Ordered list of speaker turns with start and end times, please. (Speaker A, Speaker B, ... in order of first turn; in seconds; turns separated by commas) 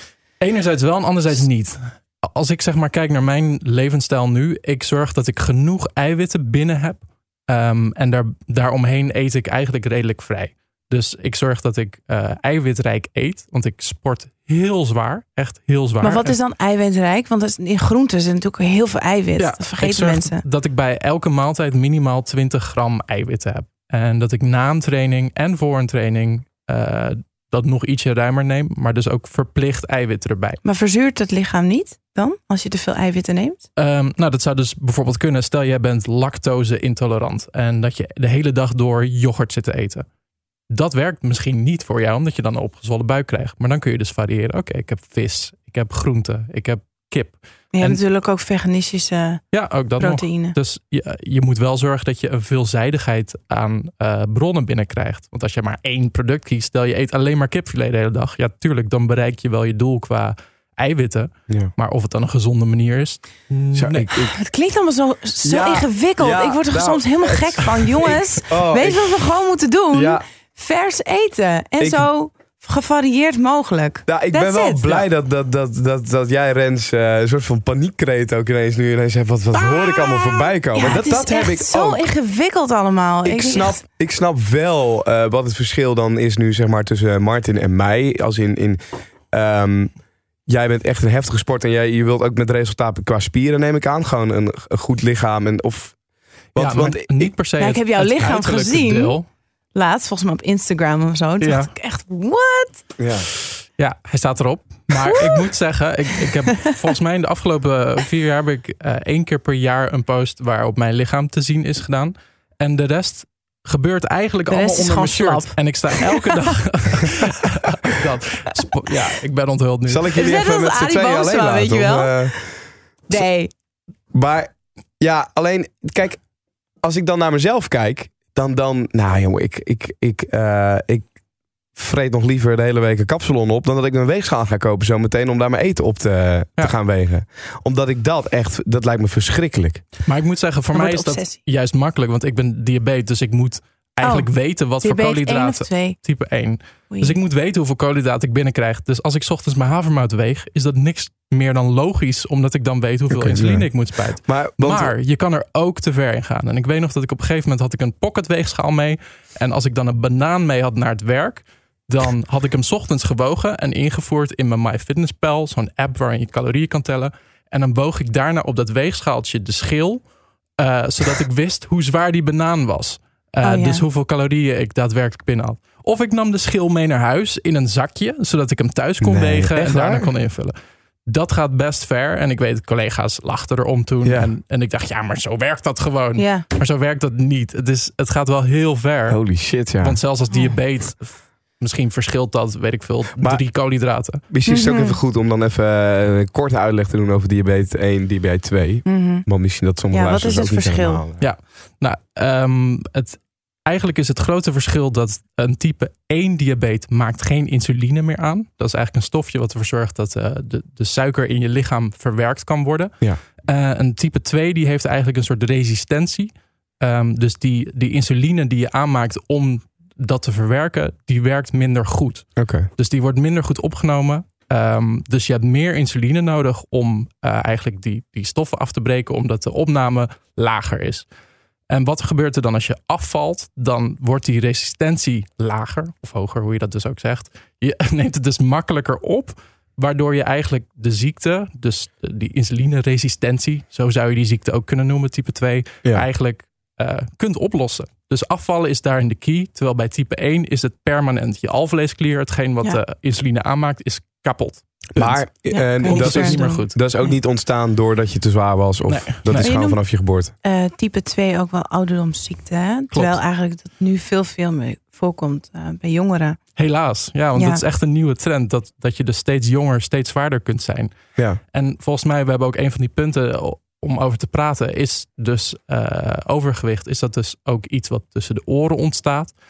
Speaker A: 0.4-16.4, Speaker B: 16.0-20.4, Speaker A: 19.4-30.6, Speaker B: 30.6-33.6, Speaker A: 33.8-40.1, Speaker A: 40.7-48.0, Speaker B: 47.7-49.4, Speaker A: 49.5-64.1, Speaker B: 50.0-50.6, Speaker C: 63.7-64.4, Speaker B: 64.3-75.1, Speaker C: 65.4-69.3, Speaker C: 69.9-70.2, Speaker C: 71.8-72.1, Speaker C: 74.1-82.1, Speaker B: 79.5-83.8, Speaker C: 83.2-90.0, Speaker C: 90.5-96.0, Speaker C: 96.5-97.3, Speaker A: 96.6-99.3, Speaker B: 97.6-99.2, Speaker B: 99.7-102.9, Speaker A: 101.4-101.7, Speaker C: 103.0-103.3, Speaker A: 103.8-120.1, Speaker B: 104.9-105.5, Speaker B: 106.2-106.8, Speaker B: 114.5-116.5, Speaker C: 119.9-122.6, Speaker B: 120.1-122.5, Speaker B: 123.1-123.5, Speaker C: 124.1-126.2, Speaker C: 126.8-131.1, Speaker C: 131.7-139.9, Speaker A: 140.1-180.5, Speaker B: 140.7-141.4, Speaker B: 144.0-146.0, Speaker B: 146.9-147.2, Speaker C: 153.1-154.9, Speaker B: 173.4-173.8, Speaker C: 179.0-180.1, Speaker A: 181.1-194.2, Speaker C: 184.1-184.3, Speaker B: 186.2-186.5, Speaker C: 189.1-190.0, Speaker B: 190.3-190.6, Speaker C: 194.3-201.3, Speaker B: 194.5-195.0, Speaker B: 198.9-199.3, Speaker B: 199.9-201.0, Speaker A: 201.2-231.1, Speaker C: 222.4-222.7, Speaker A: 231.7-256.8, Speaker C: 255.0-260.3, Speaker B: 255.5-256.6, Speaker A: 258.9-259.5, Speaker B: 259.3-259.8, Speaker B: 260.4-266.4, Speaker A: 262.9-263.2, Speaker A: 266.6-279.4, Speaker B: 267.4-267.6